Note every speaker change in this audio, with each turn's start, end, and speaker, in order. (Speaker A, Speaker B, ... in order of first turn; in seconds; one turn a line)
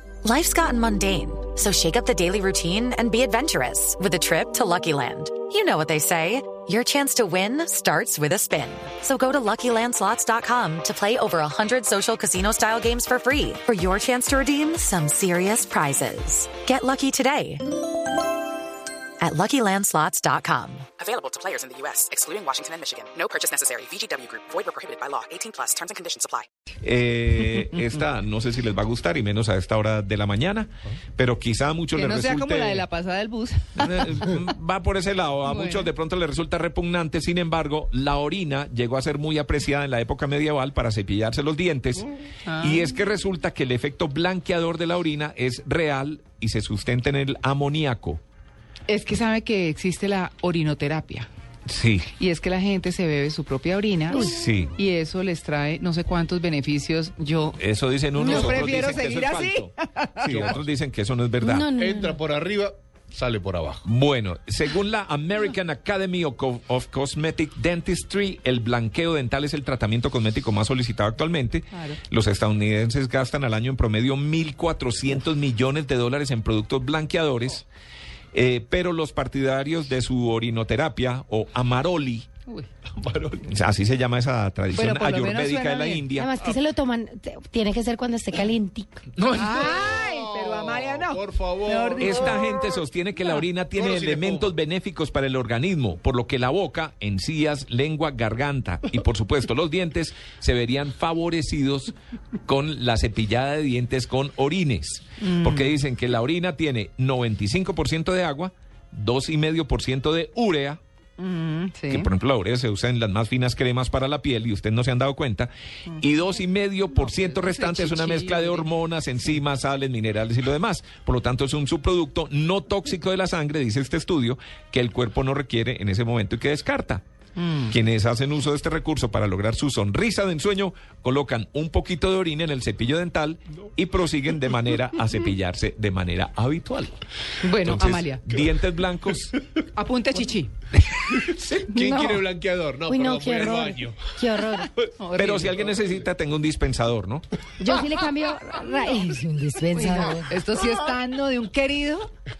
Speaker A: 0.2-17.8
Speaker A: 19.2-20.9
Speaker B: 21.0-26.5
Speaker C: 26.8-32.9
Speaker D: 31.9-34.4
Speaker C: 33.8-48.2
Speaker D: 35.5-35.9
Speaker D: 42.5-42.9
Speaker D: 48.9-51.3
Speaker C: 51.7-52.1
Speaker D: 52.1-57.6
Speaker C: 54.2-54.8
Speaker C: 57.6-59.7
Speaker D: 58.2-60.5
Speaker E: 58.2-58.6
Speaker F: 60.2-60.6
Speaker C: 60.2-61.7
Speaker E: 61.4-62.2
Speaker F: 61.8-63.9
Speaker C: 63.9-77.7
Speaker D: 71.7-72.0
Speaker C: 78.3-82.3
Speaker F: 82.9-83.4
Speaker C: 83.4-86.4
Speaker D: 84.7-86.1
Speaker E: 86.1-89.0
Speaker F: 89.2-92.3
Speaker D: 89.3-92.6
Speaker C: 92.0-110.8
Speaker F: 93.7-94.5
Speaker D: 105.2-105.7
Speaker D: 111.2-112.1
Speaker C: 111.9-127.0
Speaker D: 117.3-118.6
Speaker D: 127.4-127.7
Speaker C: 127.7-137.0
Speaker D: 137.4-138.2
Speaker C: 137.6-139.3
Speaker D: 139.7-140.5
Speaker F: 141.1-144.4
Speaker D: 141.3-142.2
Speaker E: 142.9-144.7
Speaker D: 144.6-145.6
Speaker C: 145.1-147.2
Speaker F: 145.7-146.0
Speaker E: 147.6-150.4
Speaker D: 148.4-152.1